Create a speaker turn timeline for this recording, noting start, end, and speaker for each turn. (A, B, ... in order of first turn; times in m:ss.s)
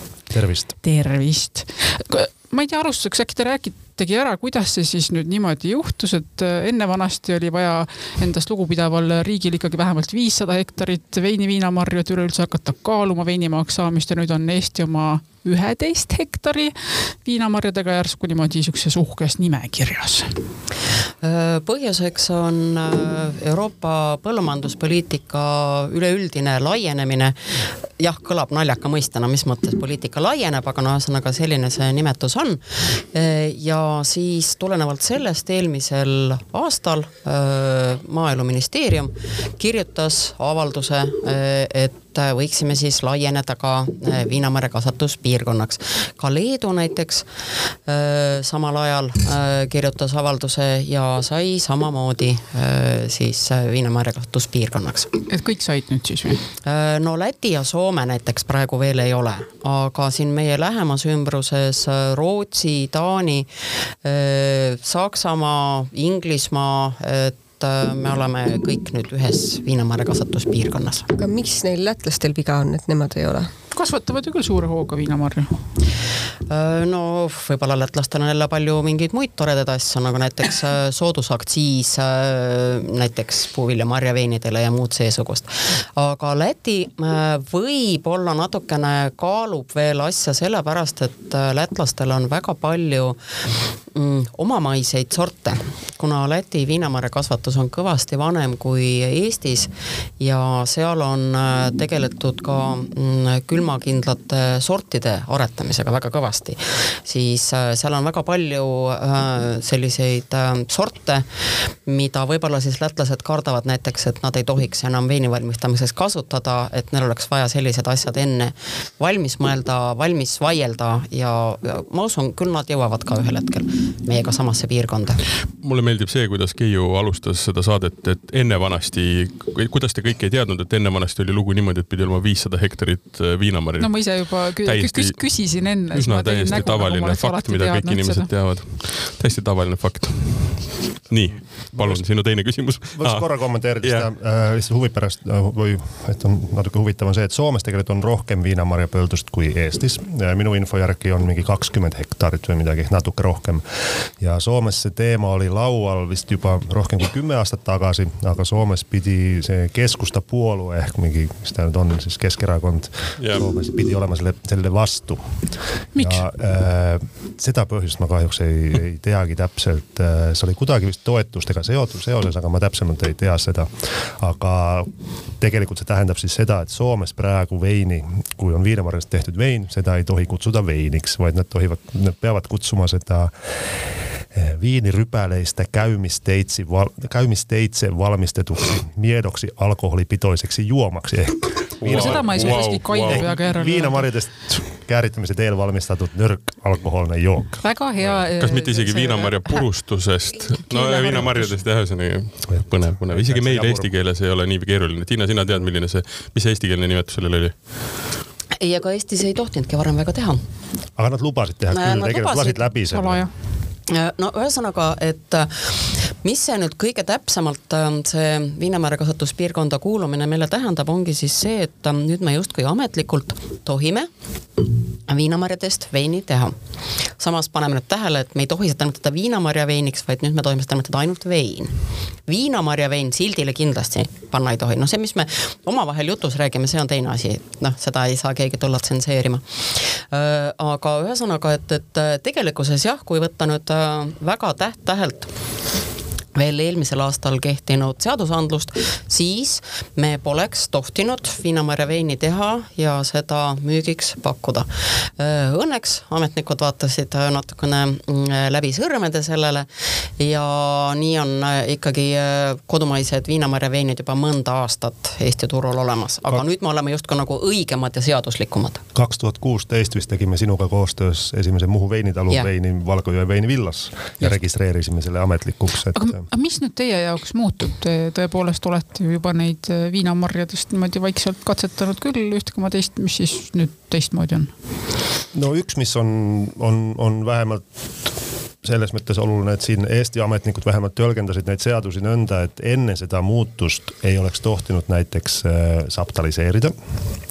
0:00.3-0:00.7 A
0:00.8-0:20.3 B
0:21.2-0:47.3 C
0:47.9-0:55.1 C
0:55.3-0:56.4 B
0:56.6-1:03.5 C
1:04.0-1:11.1 C
1:11.1-1:13.5 D
1:13.7-1:15.6 B
1:16.5-1:33.2 C
1:33.9-2:05.2 C
2:05.4-2:15.3 E
2:13.8-2:18.3 B
2:15.9-2:24.1 E
2:21.7-2:22.0 A
2:23.0-3:03.3 A
2:43.2-2:43.4 E
2:45.9-2:46.2 B
3:04.3-3:18.2 A
3:11.8-3:13.2 E
3:11.8-3:14.1 B
3:17.6-3:19.6 B
3:18.4-3:27.9 E
3:20.7-3:21.6 B
3:22.5-3:23.9 A
3:28.6-3:30.4 C
3:31.0-3:33.2 A
3:31.7-3:32.6 C
3:32.9-3:33.3 B
3:33.9-3:44.1 C
3:45.1-3:46.5 C
3:47.2-3:51.7 C
3:52.3-4:05.3 C
4:06.3-4:19.7 C
4:20.2-4:28.8 C
4:28.9-4:36.2 A
4:35.9-4:44.5 B
4:45.3-4:47.6 A
4:48.6-4:56.7 A